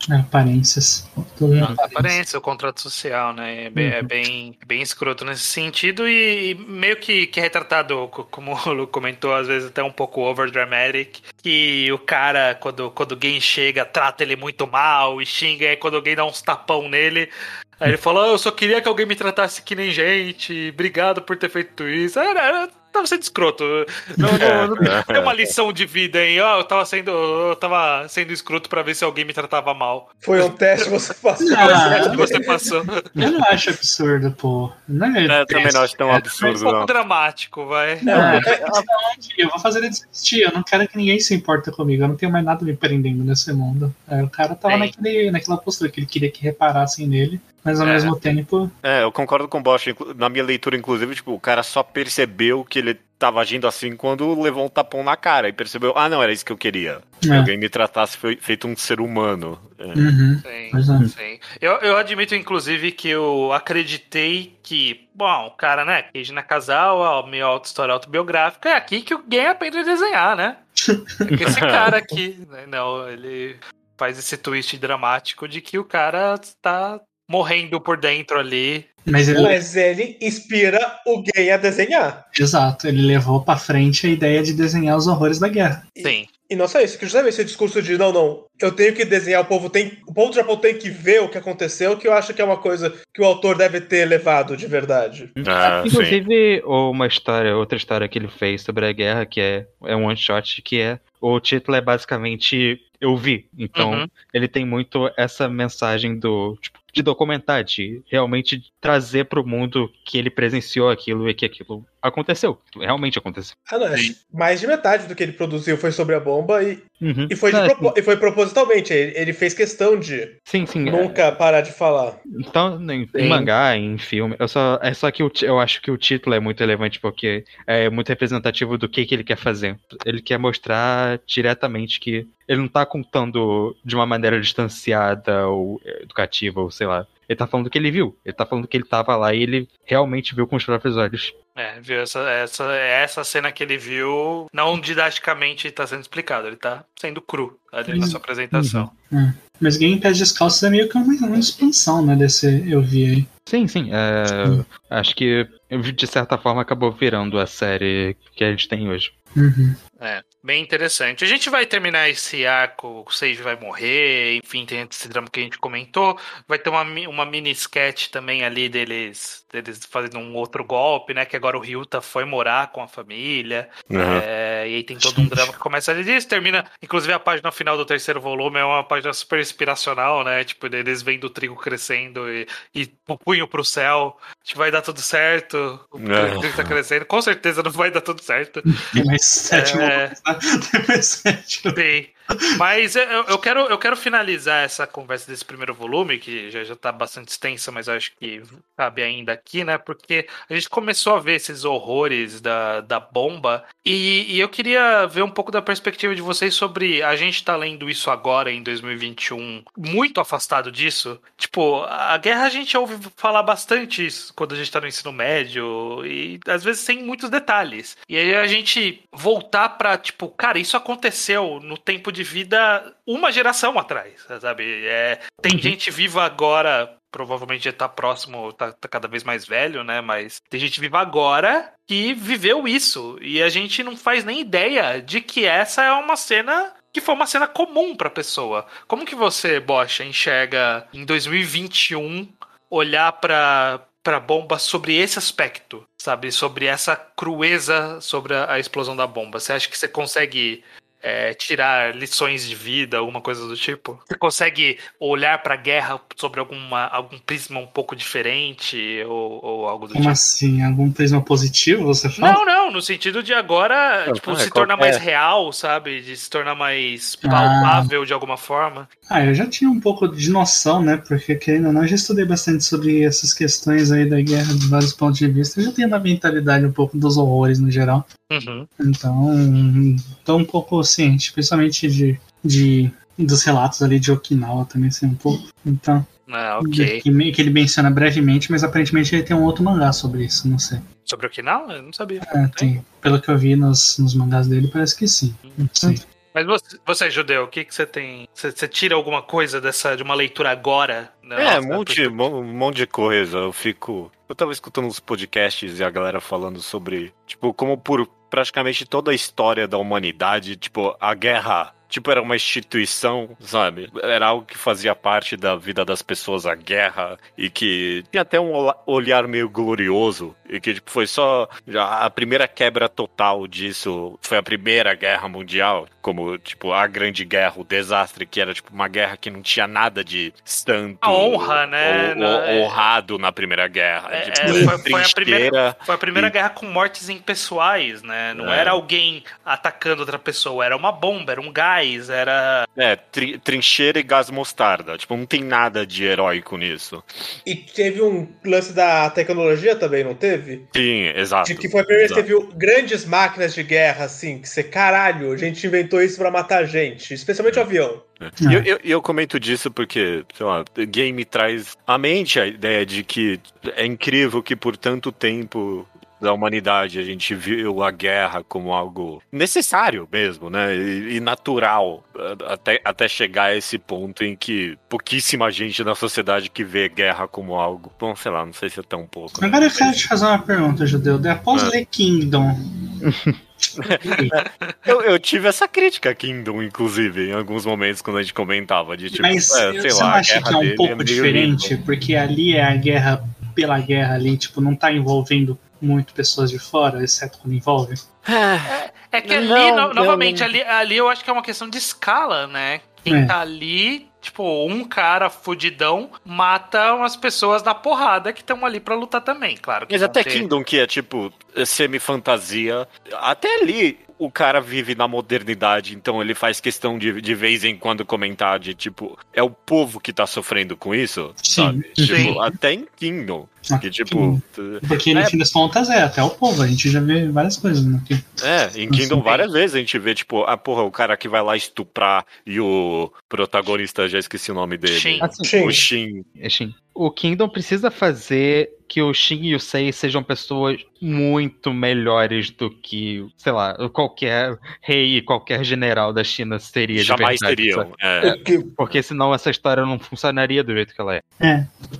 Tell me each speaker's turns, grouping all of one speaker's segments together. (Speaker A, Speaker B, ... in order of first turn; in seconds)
Speaker A: 0.1-2.2, 31.4-32.3, 33.1-36.2, 38.0-48.7, 57.2-57.5, 59.9-61.1, 70.8-71.3, 79.1-79.6, 82.3-85.9, 147.9-148.2, 149.1-153.3, 159.3-159.8, 175.0-175.5, 188.9-191.8, 259.9-262.4, 267.2-267.9, 269.1-278.1, 278.8-286.1, 286.6-290.8, 292.2-296.0, 358.4-358.7, 379.4-383.0, 383.6-384.3, 389.1-398.0, 403.1-403.4, 421.4-422.6, 423.6-429.3, 451.4-451.7
Speaker B: 1.6-17.3, 17.8-30.5, 31.6-33.7, 36.4-38.5, 44.6-44.9, 47.8-48.1, 60.4-70.7, 71.3-78.9, 86.0-86.3, 103.7-104.1, 123.1-123.5, 141.6-148.9, 160.0-188.7, 189.5-190.1, 191.7-260.2, 262.2-268.9, 278.3-278.7, 286.3-287.0, 291.1-292.7, 295.4-295.7, 296.3-302.2, 331.0-332.8, 334.1-342.7, 384.1-385.0, 398.7-410.5, 422.0-422.4, 434.9-435.3
Speaker C: 3.8-4.1, 95.4-113.6, 117.0-117.9, 120.5-121.2, 122.3-141.3, 148.5-148.9, 153.5-159.1, 383.1-383.4, 422.0-422.2, 435.2-435.5, 436.4-451.2
Speaker D: 24.4-25.3, 35.3-36.9, 48.8-60.1, 71.5-71.9, 95.4-96.2, 173.9-174.2, 186.0-186.8, 264.1-265.0, 301.4-336.3, 338.3-338.8, 342.8-347.1, 350.7-352.3, 358.2-380.0, 383.8-391.7, 398.2-400.5, 409.9-425.3, 428.4-436.2, 446.9-448.4
Speaker E: 30.2-32.4, 38.1-38.7, 79.3-82.2, 86.0-95.3, 113.7-122.2, 334.4-334.8, 347.4-350.7, 351.4-358.0, 435.4-435.9, 448.2-448.7